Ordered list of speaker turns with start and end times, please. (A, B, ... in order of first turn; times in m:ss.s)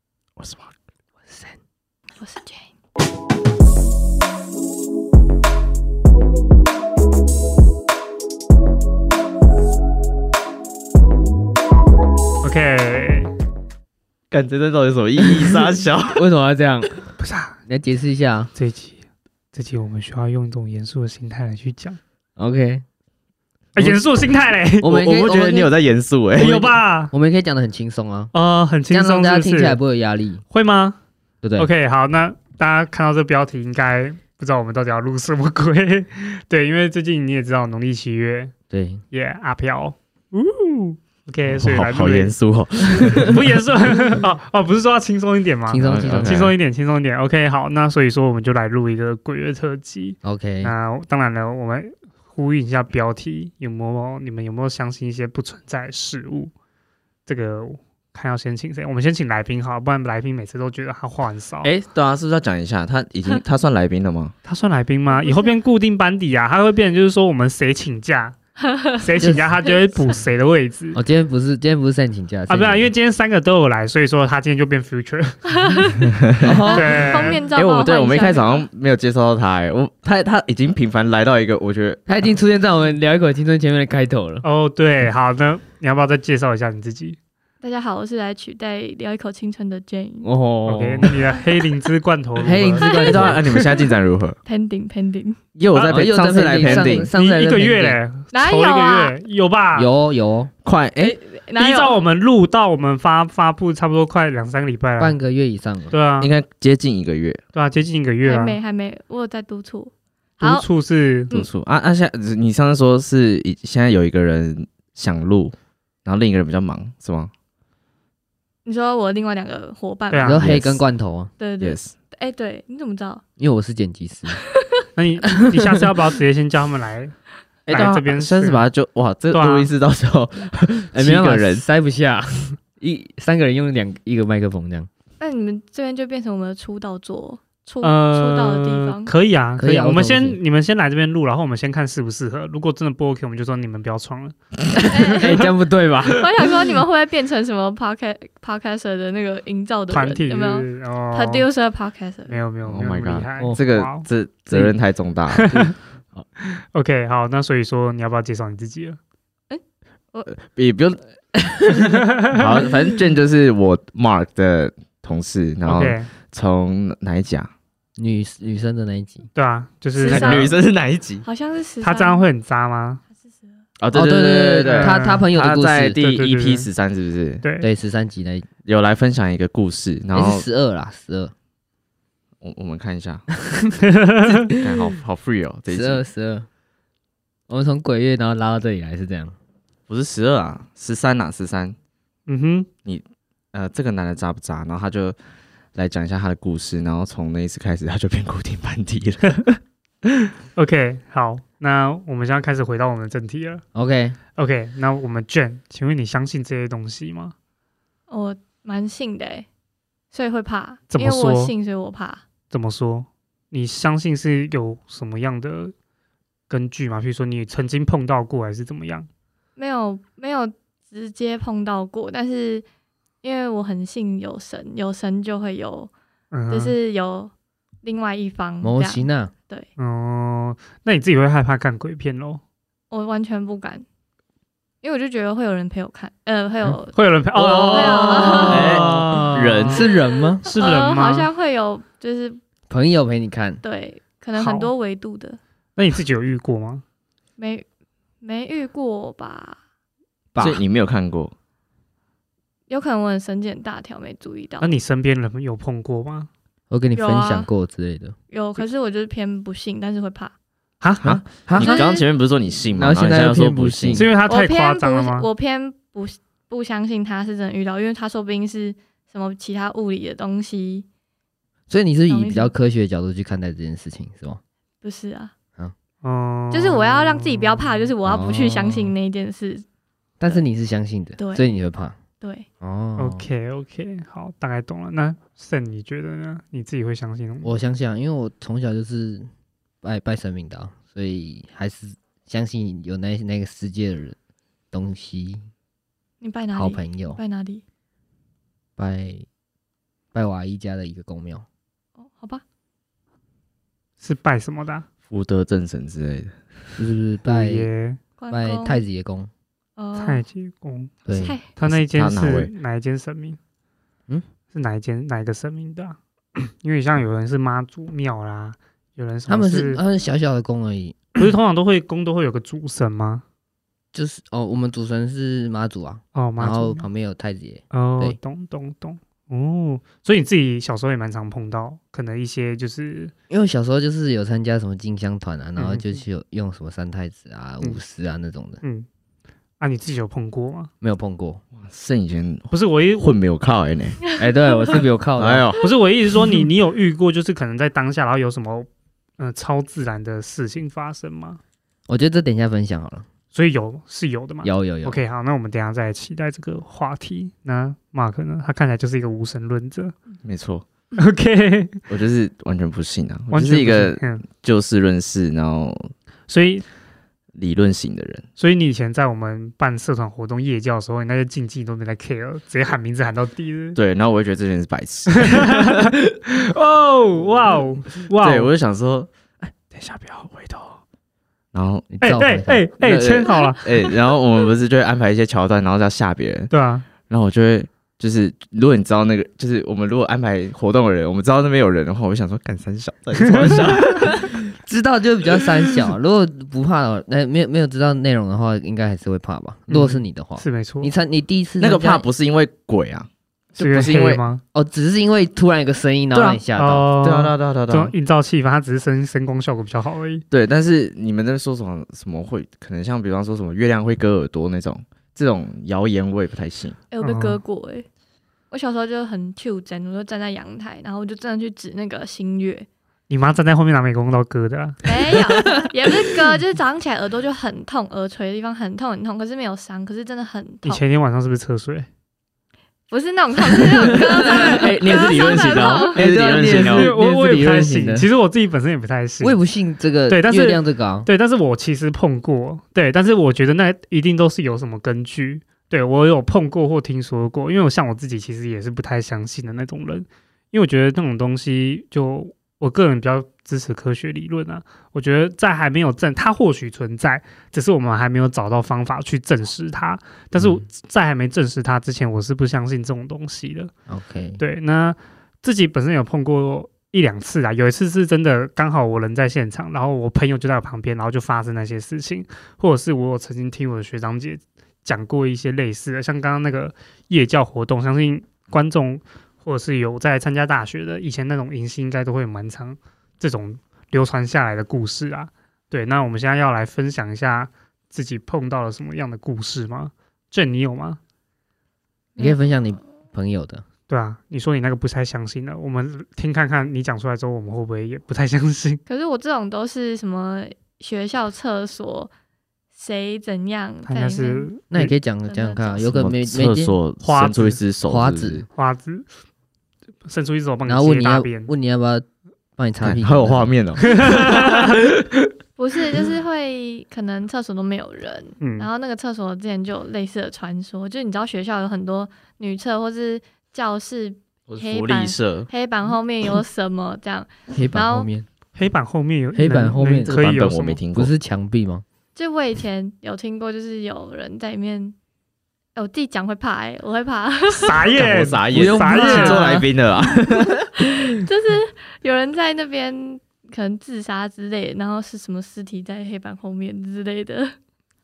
0:00.4-0:00.7 A
0:01.3-0:01.6 B
0:02.2-0:02.7 C
0:12.4-0:13.3 D
0:14.3-0:16.2 A
0:15.2-0:17.1 B
0:17.2-0:17.6 D
0:17.7-0:18.5 B
0:18.5-0:19.0 D
0:19.5-0:22.0 D
0:22.4-0:22.8 B
0:23.7-0:25.0 D
0:24.8-0:25.7 B
0:24.8-0:26.7 A
0:26.4-0:27.1 D
0:27.1-0:28.3 B
0:28.3-0:29.8 D
0:28.9-0:30.4 B
0:30.5-0:31.0 D
0:31.4-0:31.7 B
0:31.6-0:38.5 D
0:38.7-0:39.0 B
0:39.1-0:42.3 D
0:41.6-0:43.4 A
0:43.0-0:56.5 D
0:45.7-0:46.5 B
0:45.8-0:46.5 A
0:50.2-0:50.7 B
0:57.2-1:01.7 D
1:01.6-1:04.3 A
1:04.4-1:08.4 D
1:05.1-1:05.5 C
1:08.6-1:09.0 C
1:09.0-1:11.0 D
1:09.2-1:09.5 B
1:10.9-1:12.9 B
1:12.5-1:15.9 D
1:15.5-1:18.7 C
1:16.2-1:16.5 A
1:16.4-1:17.3 B
1:16.7-1:17.4 D
1:17.5-1:22.0 A
1:22.1-1:24.4 B
1:24.4-1:27.2 D
1:27.6-1:30.3 C
1:30.2-1:31.2 B
1:30.6-1:33.3 D
1:32.4-1:33.4 B
1:32.8-1:33.3 C
1:33.0-1:34.4 A
1:34.4-1:35.4 C
1:35.6-1:37.1 A
1:35.7-1:36.0 D
1:35.8-1:38.0 B
1:36.6-1:39.9 D
1:38.3-1:39.1 C
1:39.7-1:40.5 B
1:40.6-1:41.2 A
1:41.0-1:42.0 C
1:41.6-1:45.2 D
1:45.0-1:45.9 B
1:45.9-1:46.3 D
1:46.2-1:47.4 A
1:47.5-1:48.6 D
1:48.2-1:50.6 C
1:50.4-1:51.3 D
1:51.3-1:57.3 A
1:58.6-2:00.5 C
2:00.1-2:00.4 D
2:00.2-2:01.3 B
2:00.4-2:00.8 A
2:01.4-2:03.2 C
2:01.6-2:01.9 A
2:03.4-2:04.4 B
2:04.3-2:04.8 C
2:05.0-2:07.1 D
2:05.4-2:05.9 B
2:07.6-2:11.6 A
2:07.7-2:08.6 D
2:09.3-2:09.7 D
2:10.9-2:14.9 B
2:15.2-2:19.1 C
2:17.8-2:25.1 D
2:19.6-2:20.4 B
2:24.7-2:26.7 B
2:24.9-2:25.4 C
2:26.1-2:32.4 C
2:29.9-2:31.4 D
2:32.3-2:34.0 D
2:32.6-2:35.6 A
2:35.3-2:35.7 D
2:36.4-2:39.0 D
2:40.3-2:41.4 A
2:41.8-2:42.4 D
2:42.3-2:47.5 A
2:45.6-2:46.1 D
2:48.0-2:49.3 B
2:49.3-2:50.5 D
2:50.0-2:50.6 C
2:50.0-2:51.2 A
2:51.2-2:52.2 C
2:51.8-2:53.0 D
2:53.2-2:53.5 C
2:53.8-2:57.4 A
2:53.9-2:56.0 B
2:54.6-2:55.2 D
2:56.0-2:56.7 D
2:57.4-2:57.7 D
2:57.6-2:58.5 B
2:58.6-3:00.4 A
3:00.1-3:01.3 B
3:02.4-3:03.2 A
3:03.8-3:04.5 D
3:04.5-3:06.0 A
3:05.7-3:06.4 B
3:07.5-3:09.3 B
3:09.9-3:11.8 A
3:12.3-3:12.7 D
3:12.8-3:15.2 A
3:15.7-3:19.6 A
3:20.5-3:23.6 D
3:23.7-3:24.2 B
3:24.4-3:27.3 D
3:28.1-3:29.5 C
3:30.1-3:32.2 C
3:30.9-3:31.5 D
3:32.5-3:35.7 D
3:36.5-3:39.1 D
3:39.6-3:42.6 C
3:43.2-3:45.9 C
3:46.3-3:46.7 D
3:46.5-3:47.3 C
3:47.8-3:49.7 C
3:48.6-3:49.3 B
3:49.8-3:52.4 D
3:52.9-3:53.8 C
3:54.8-3:57.0 C
3:56.9-3:59.8 D
3:57.3-4:00.4 B
3:57.6-3:58.8 C
3:58.5-3:59.9 A
3:59.8-4:02.4 C
4:00.4-4:01.3 D
4:02.7-4:03.6 B
4:03.6-4:05.4 C
4:04.3-4:04.7 D
4:05.8-4:06.8 D
4:07.4-4:07.6 C
4:08.2-4:09.6 C
4:10.3-4:10.6 B
4:10.4-4:11.3 A
4:12.7-4:14.7 C
4:14.6-4:16.3 D
4:16.7-4:18.2 B
4:16.9-4:17.5 C
4:18.3-4:20.3 C
4:20.8-4:21.2 D
4:21.0-4:24.1 A
4:21.4-4:22.0 B
4:21.6-4:22.0 C
4:22.7-4:24.1 B
4:23.9-4:25.3 D
4:24.3-4:30.8 C
4:31.7-4:34.4 B
4:32.1-4:32.5 C
4:34.8-4:35.3 C
4:36.0-4:37.9 D
4:36.5-4:39.6 C
4:38.0-4:38.9 B
4:40.2-4:42.0 B
4:41.2-4:41.5 C
4:42.2-4:42.5 C
4:42.6-4:43.2 B
4:43.0-4:47.5 D
4:47.4-4:49.3 B
4:49.8-4:54.2 B
4:54.7-4:55.4 B
4:56.2-4:57.6 C
4:56.5-4:57.2 B
4:58.8-4:59.2 B
5:00.1-5:01.4 B
5:02.0-5:02.4 C
5:04.0-5:04.8 D
5:05.1-5:06.8 A
5:06.8-5:07.7 B
5:07.2-5:08.0 D
5:08.2-5:08.8 C
5:08.3-5:09.3 B
5:09.8-5:10.2 C
5:10.0-5:10.9 D
5:11.0-5:11.4 B
5:11.1-5:11.5 C
5:11.6-5:13.4 D
5:11.6-5:12.5 A
5:14.5-5:19.8 D
5:19.3-5:21.2 B
5:21.2-5:23.2 D
5:23.9-5:28.2 B
5:26.1-5:26.8 D
5:27.7-5:33.1 D
5:33.3-5:38.6 B
5:35.6-5:35.9 D
5:38.6-5:38.9 D
5:39.6-5:40.7 D
5:40.8-5:41.4 B
5:41.6-5:44.1 A
5:42.5-5:43.2 D
5:44.2-5:45.4 B
5:45.2-5:45.7 A
5:45.6-5:48.7 D
5:49.2-5:51.4 D
5:51.9-5:53.0 B
5:53.3-5:59.9 D
5:54.4-5:55.0 B
6:00.2-6:00.6 A
6:01.0-6:01.8 D
6:01.9-6:05.9 A
6:03.3-6:04.2 D
6:06.3-6:06.6 D
6:07.3-6:08.3 A
6:08.4-6:13.8 D
6:13.8-6:15.9 A
6:15.3-6:18.5 D
6:18.2-6:20.8 A
6:21.5-6:21.9 A
6:21.9-6:22.7 B
6:22.0-6:23.6 D
6:22.8-6:26.5 A
6:26.5-6:26.8 D
6:27.0-6:34.4 A
6:34.2-6:42.0 B
6:39.7-6:40.9 D
6:41.6-6:44.2 A
6:43.6-6:44.4 D
6:44.5-6:46.9 B
6:46.1-6:46.4 A
6:46.5-6:50.2 D
6:47.0-6:47.9 A
6:50.3-6:56.8 A
6:56.9-6:57.8 C
6:57.0-6:57.4 D
6:58.5-7:02.7 C
7:03.1-7:04.8 D
7:04.8-7:10.8 C
7:10.6-7:11.9 D
7:12.9-7:16.1 C
7:13.6-7:18.1 B
7:14.2-7:16.9 A
7:16.6-7:19.4 D
7:19.2-7:21.1 B
7:20.1-7:43.7 D
7:40.4-7:40.6 B
7:43.9-7:44.4 B
7:44.4-8:11.0 D
8:12.2-8:13.6 B
8:13.9-8:18.8 D
8:18.8-8:22.1 C
8:22.7-8:24.5 C
8:23.8-8:24.9 D
8:24.7-8:26.8 B
8:25.3-8:25.9 C
8:25.9-8:28.4 A
8:27.0-8:27.6 D
8:27.9-8:28.5 B
8:28.5-8:29.0 D
8:30.1-8:31.5 D
8:30.6-8:32.0 B
8:32.6-8:33.5 B
8:32.8-8:35.1 A
8:34.0-8:34.7 D
8:35.6-8:48.1 C
8:38.4-8:38.7 D
8:44.5-8:45.5 A
8:47.5-8:48.2 B
8:48.6-8:50.8 D
8:49.3-8:50.2 B
8:50.0-8:51.1 A
8:50.9-8:51.8 B
8:52.1-8:54.9 C
8:55.7-8:57.8 C
8:57.5-8:59.4 D
8:58.0-9:00.8 A
8:58.5-8:59.7 B
9:00.8-9:07.5 C